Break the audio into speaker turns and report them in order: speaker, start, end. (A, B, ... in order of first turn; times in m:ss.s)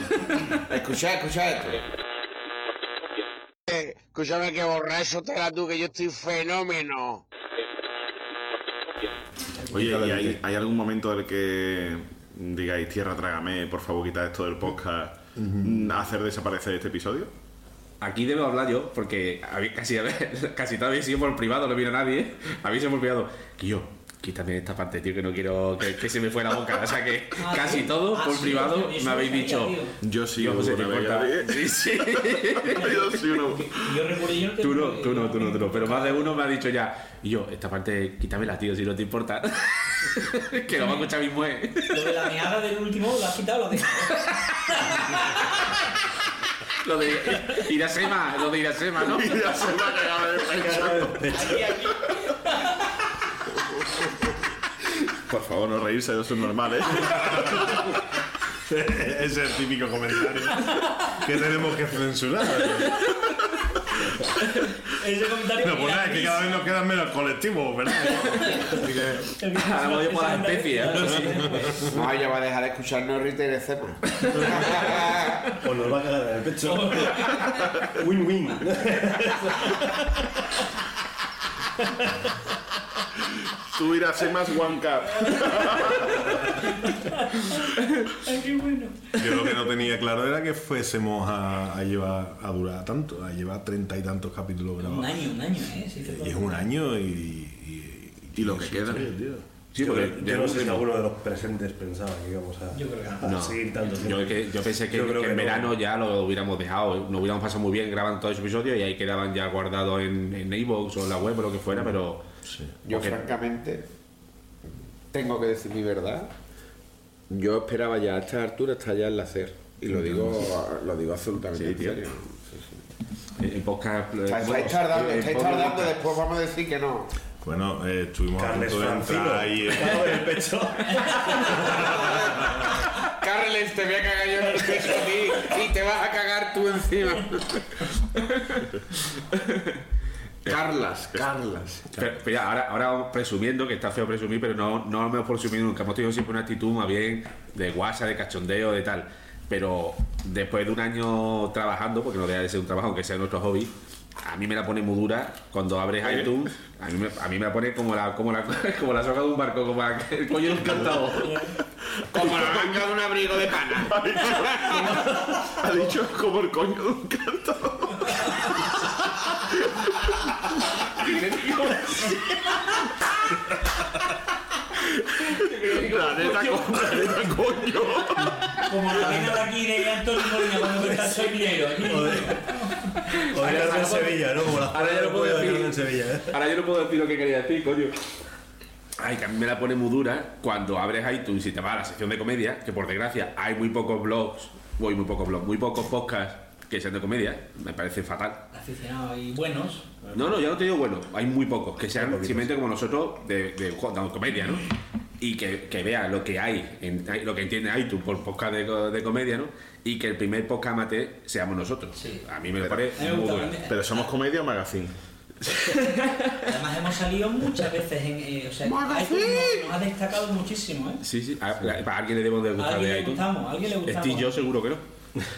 0:00.4-0:01.8 A
0:03.7-0:07.2 A
0:09.7-0:17.3 B
0:09.7-0:10.4 C
0:15.4-0:15.9 C
0:18.0-0:29.8 D
0:27.4-0:29.9 E
0:30.0-0:31.7 B
0:30.4-0:33.2 D
0:32.6-0:34.0 B
0:32.7-0:36.3 E
0:34.6-0:42.2 D
0:40.7-0:41.1 E
0:41.9-0:45.2 E
0:46.8-0:49.6 D
0:49.0-0:51.3 B
0:50.6-0:51.7 F
0:51.3-0:52.7 E
0:55.3-0:57.9 B
0:58.7-1:03.1 C
1:05.0-1:06.6 E
1:05.6-1:09.3 C
1:08.4-1:08.8 E
1:09.4-1:11.8 E
1:09.6-1:11.6 D
1:11.9-1:15.5 A
1:15.6-1:20.1 F
1:16.7-1:17.5 E
1:23.6-1:26.4 B
1:26.8-1:27.6 E
1:28.1-1:29.5 E
1:29.2-1:35.3 C
1:34.8-1:36.5 E
1:36.0-1:39.4 C
1:38.4-1:39.1 B
1:39.7-1:40.9 D
1:39.8-1:45.8 F
1:42.7-1:43.3 E
1:43.2-1:52.2 D
1:52.5-1:52.8 C
1:52.8-1:53.9 A
1:52.9-1:53.2 D
1:55.1-1:56.3 A
1:57.3-2:02.8 A
1:59.9-2:00.4 C
2:01.5-2:02.0 D
2:03.4-2:06.1 D
2:04.3-2:07.1 A
2:07.4-2:10.2 C
2:08.4-2:11.6 F
2:11.7-2:17.6 A
2:20.4-2:22.1 A
2:22.0-2:41.5 D
2:36.0-2:36.3 A
2:41.2-2:41.5 E
2:42.1-2:45.0 A
2:42.2-2:42.8 B
2:43.8-2:49.7 B
2:51.0-2:52.2 D
2:55.3-2:57.4 D
2:55.7-2:58.7 B
2:58.6-3:04.1 E
3:01.8-3:02.4 F
3:03.3-3:06.4 F
3:03.4-3:08.0 D
3:09.0-3:18.4 D
3:18.5-3:19.9 E
3:20.1-3:24.7 D
3:21.9-3:22.5 F
3:25.2-3:33.6 D
3:32.0-3:32.2 E
3:32.6-3:32.9 B
3:33.0-3:34.1 E
3:33.7-3:34.9 B
3:35.5-3:36.4 D
3:36.4-3:41.0 E
3:38.6-3:39.7 A
3:41.0-3:44.8 D
3:42.6-3:44.3 E